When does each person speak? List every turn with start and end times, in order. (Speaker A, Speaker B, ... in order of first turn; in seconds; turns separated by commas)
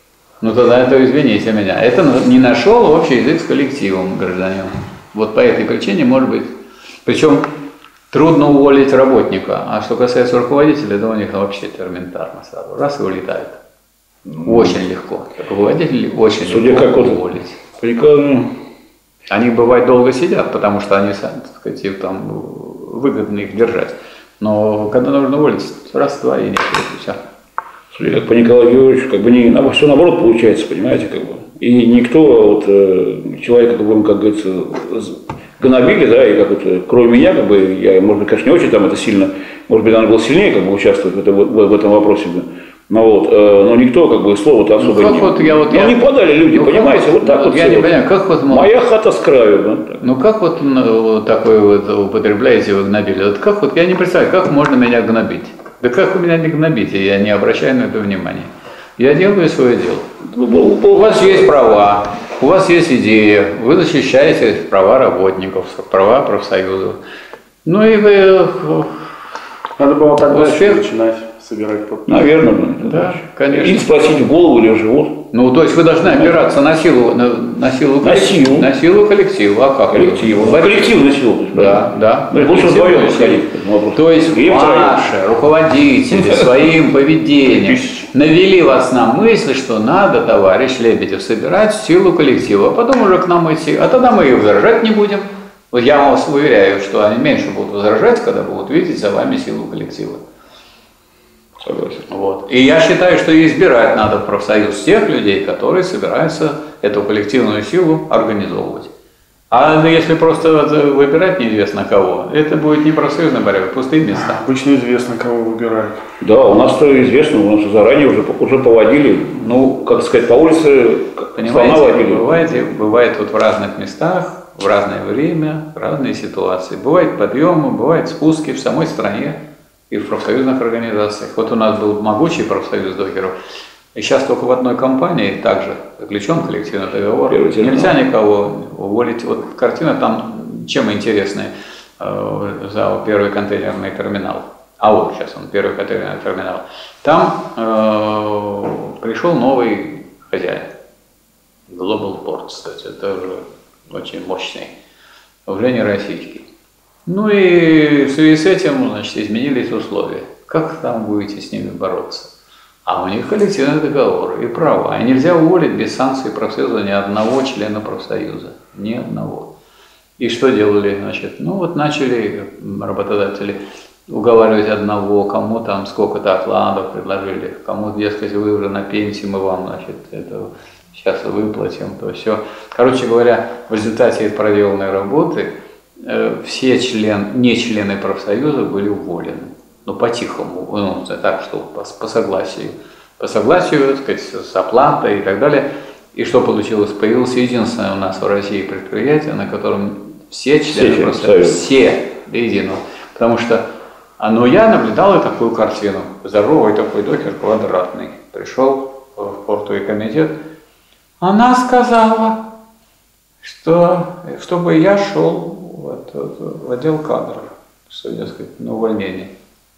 Speaker A: 0.4-6.5, Speaker A: 7.0-7.5, Speaker A: 8.1-13.6, Speaker B: 14.3-14.8, Speaker A: 14.4-17.6, Speaker B: 16.4-18.5, Speaker A: 19.3-27.2, Speaker B: 27.9-47.9, Speaker A: 44.8-48.7, Speaker B: 48.5-50.0, Speaker A: 50.0-60.1, Speaker B: 60.2-61.5, Speaker A: 60.9-67.0, Speaker A: 67.7-69.0, Speaker C: 69.8-72.2, Speaker A: 70.3-70.8, Speaker B: 72.1-75.2, Speaker A: 72.8-73.9, Speaker A: 75.3-80.9, Speaker B: 76.1-76.3, Speaker B: 78.0-78.7, Speaker B: 79.9-85.1, Speaker A: 81.5-100.2, Speaker B: 86.1-86.6, Speaker B: 101.6-102.0, Speaker A: 102.1-108.9, Speaker A: 109.5-114.4, Speaker C: 114.2-116.0, Speaker B: 116.2-122.4, Speaker A: 121.3-129.4, Speaker A: 129.9-133.3, Speaker A: 133.9-150.7, Speaker B: 137.3-138.0, Speaker A: 151.7-154.7, Speaker A: 155.5-156.5, Speaker A: 157.1-162.3, Speaker A: 162.9-169.5, Speaker A: 170.2-203.6, Speaker B: 200.7-201.6, Speaker A: 204.2-210.3, Speaker A: 211.2-212.4, Speaker A: 213.4-219.3